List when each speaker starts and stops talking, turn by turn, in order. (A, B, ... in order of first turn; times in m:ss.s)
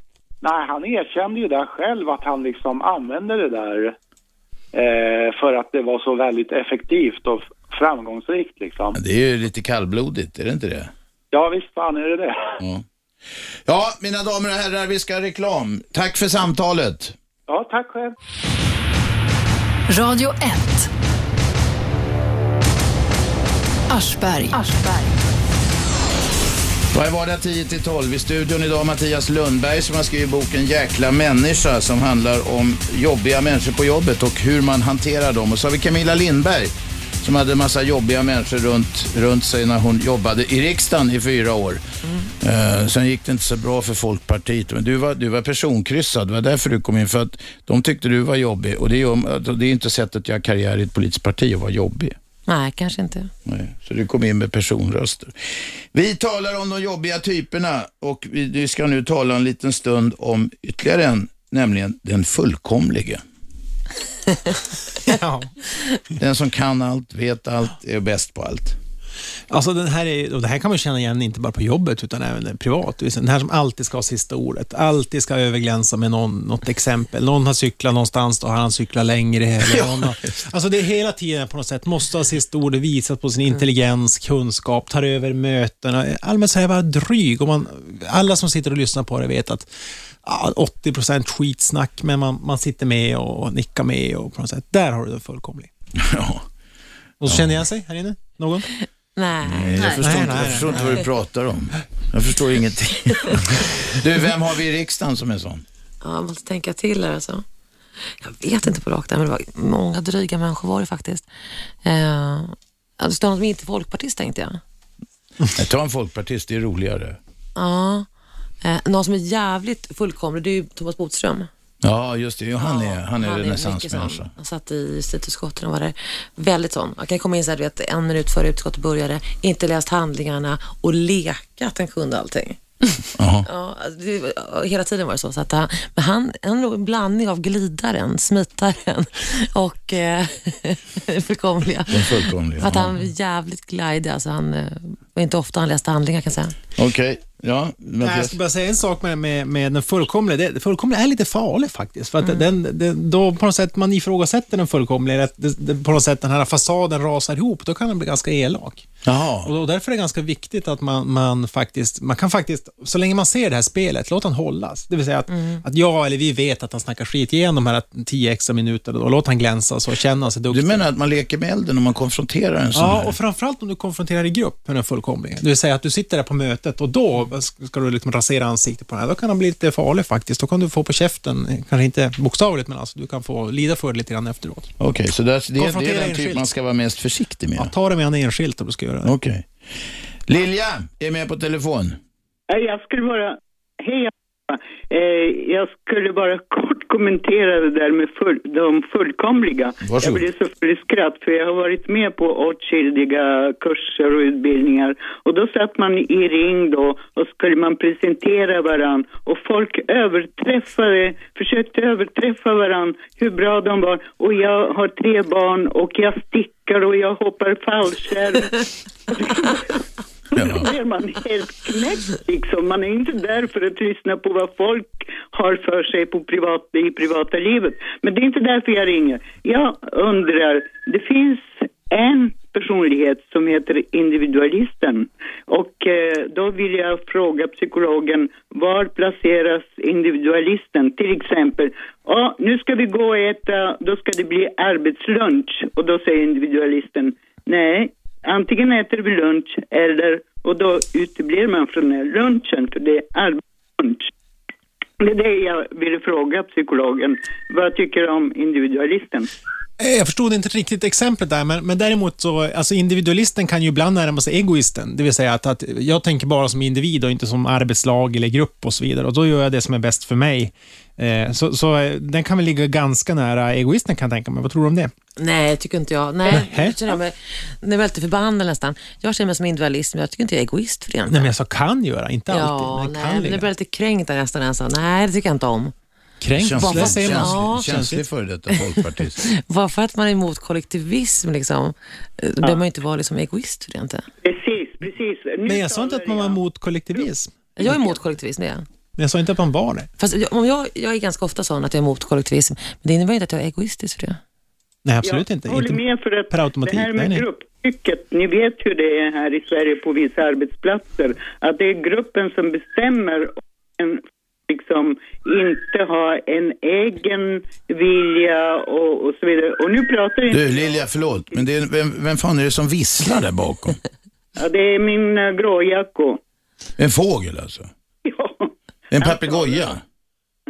0:00.4-0:04.0 A
0:04.7-0:09.0 A
0:08.9-0:10.9 B
0:11.3-0:12.6 A
0:12.6-0:12.8 B
0:13.6-0:17.2 B
0:17.5-0:18.2 A
0:19.9-0:20.9 C
0:23.9-0:25.2 C
0:26.9-0:41.8 B
0:42.0-0:42.3 D
0:42.4-0:52.1 B
0:52.5-0:53.3 D
0:53.4-1:03.2 B
1:05.0-1:05.5 E
1:06.2-1:08.8 B
1:09.5-1:29.7 E
1:19.6-1:20.5 B
1:30.2-1:35.7 E
1:35.9-1:36.4 B
1:37.2-1:38.7 E
1:37.2-1:37.6 B
1:38.8-1:40.0 D
1:39.4-1:45.6 B
1:39.8-1:41.0 E
1:46.0-1:47.4 D
1:48.1-1:51.3 D
1:51.8-1:54.6 D
1:55.5-1:57.2 B
1:57.6-1:58.1 D
1:58.6-2:01.5 D
2:01.8-2:04.3 B
2:02.6-2:12.7 D
2:13.2-2:13.5 B
2:13.4-2:26.6 D
2:21.9-2:23.0 B
2:26.8-2:28.4 B
2:28.0-2:38.9 E
2:39.0-2:39.5 B
2:39.4-2:50.8 E
2:45.3-2:45.6 D
2:50.5-2:53.2 B
2:52.7-3:04.7 E
3:04.8-3:07.7 B
3:05.6-3:06.4 E
3:07.6-3:09.1 E
3:09.0-3:12.0 B
3:12.5-3:39.8 F
3:19.8-3:20.2 B
3:40.3-4:14.1 F
3:40.3-3:40.7 B
4:15.0-4:19.3 F
4:19.8-4:34.9 E
4:35.2-4:41.3 D
4:36.3-4:36.9 E
4:41.1-4:43.5 E
4:42.3-4:45.7 D
4:46.2-4:48.0 E
4:46.4-4:49.3 B
4:46.6-4:47.8 D
4:48.5-4:54.0 D
4:54.2-4:56.4 F
4:55.4-4:57.9 E
4:57.6-4:58.6 D
4:59.0-4:59.9 E
5:00.0-5:04.2 D
5:04.8-5:07.2 E
5:05.0-5:21.4 F
5:20.3-5:23.8 B
5:24.4-5:26.2 F
5:26.8-5:27.7 B
5:28.0-5:29.7 F
5:28.9-5:29.8 B